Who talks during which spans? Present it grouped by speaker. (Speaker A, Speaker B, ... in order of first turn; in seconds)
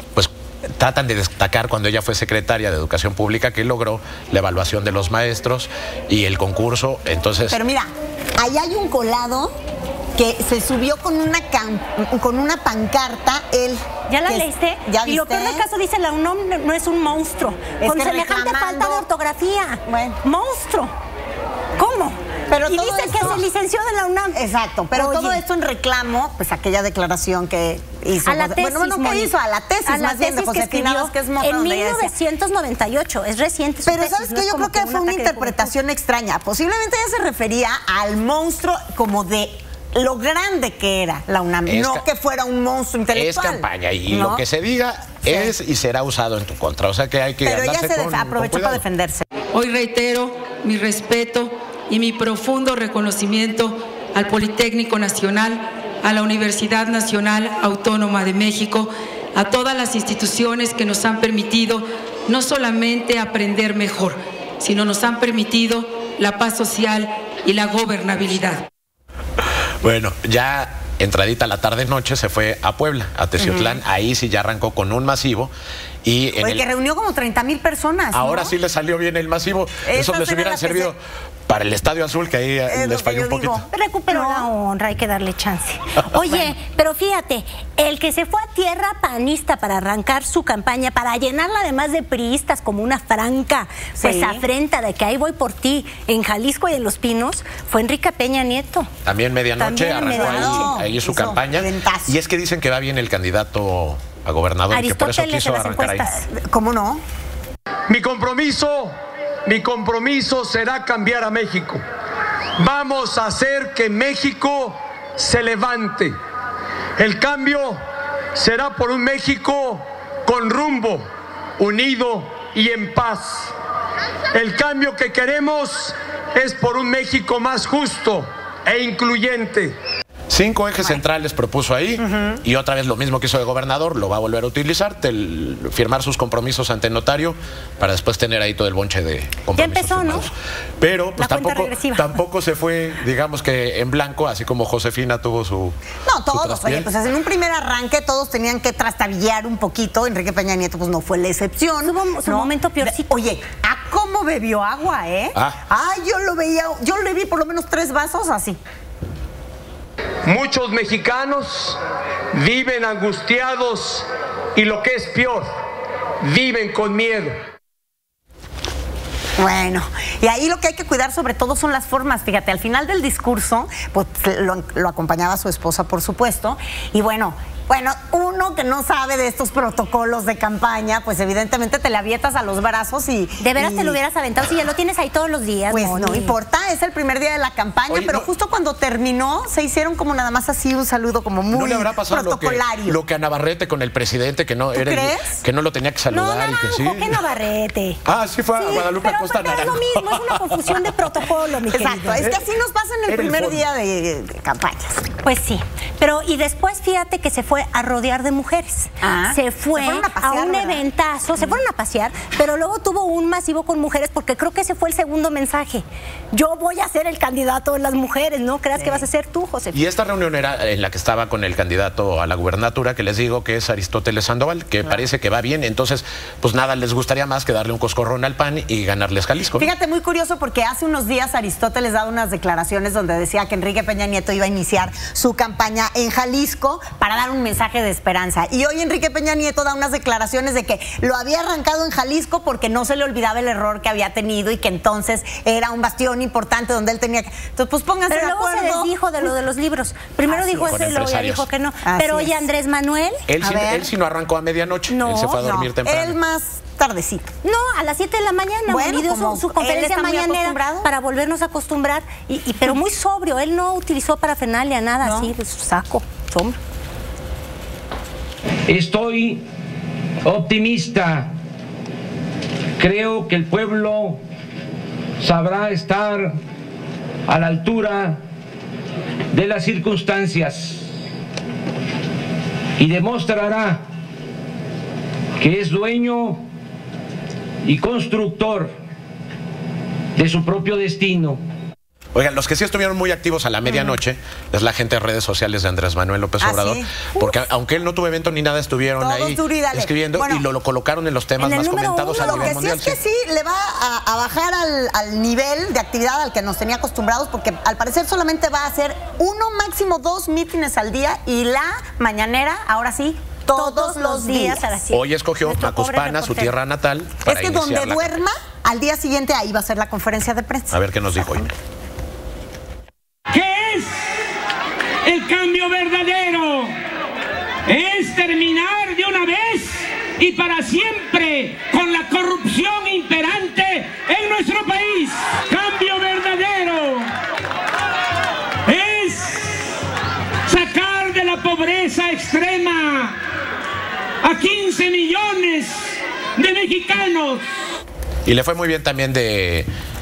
Speaker A: 0.1-7.6, 41.6-42.1, 43.1-48.8, 69.8-75.5, 76.0-76.7, 78.1-83.6, 86.0-86.5, 99.0-106.1, 130.3-145.8, 146.3-146.9, 155.3-155.6, 187.9-188.3, 191.5-197.2, 198.1-200.9, 202.2-202.4, 203.1-203.7, 219.7-229.7, 250.7-251.5, 253.3-256.2, 292.1-303.0, 314.9-318.2, 320.7-321.5, 348.3-349.7
Speaker B: 7.5-9.5, 10.2-15.7, 17.8-19.0, 19.9-20.2, 22.5-23.4, 24.3-32.1, 33.9-44.5, 45.2-45.5, 47.4-49.2, 73.4-73.8, 76.4-78.5, 79.8-80.9, 82.7-84.5, 94.0-94.5, 100.1-102.2, 106.3-107.0, 132.0-132.4, 146.1-158.6, 169.4-184.0, 185.7-193.0, 194.7-195.4, 201.7-205.1, 209.0-210.8, 218.8-219.1, 229.5-249.3, 250.3-250.9, 251.8-252.4, 253.4-253.9, 255.4-257.3, 258.7-260.9, 265.0-265.3, 296.4-297.1, 299.0-300.5, 302.1-314.8, 317.2-321.4
Speaker C: 14.1-20.9, 21.8-22.2, 22.7-24.4, 24.9-25.4, 28.2-29.3, 29.9-35.7, 83.7-98.9, 99.6-100.8, 104.7-106.2, 139.6-140.3, 141.2-142.1, 151.8-153.1, 183.4-186.4, 196.1-198.0, 198.6-202.3, 205.2-219.8, 248.1-253.2, 254.9-255.4, 257.4-266.6, 301.4-302.7, 313.5-316.5
Speaker D: 49.5-68.6
Speaker E: 107.9-108.9, 109.5-111.8, 112.6-116.1, 117.0-117.8, 118.4-121.0, 121.6-123.5, 124.3-129.8, 160.2-161.8, 162.3-165.5, 166.2-167.3
Speaker F: 268.7-269.4, 270.2-271.3, 272.8-274.2, 275.2-276.4, 277.3-278.2, 279.3-280.8, 282.8-283.8, 285.4-286.4, 287.6-288.7, 290.2-291.4, 323.3-323.9, 325.1-326.7, 327.7-337.1, 338.7-339.5, 340.5-343.2, 344.2-345.8, 346.4-347.4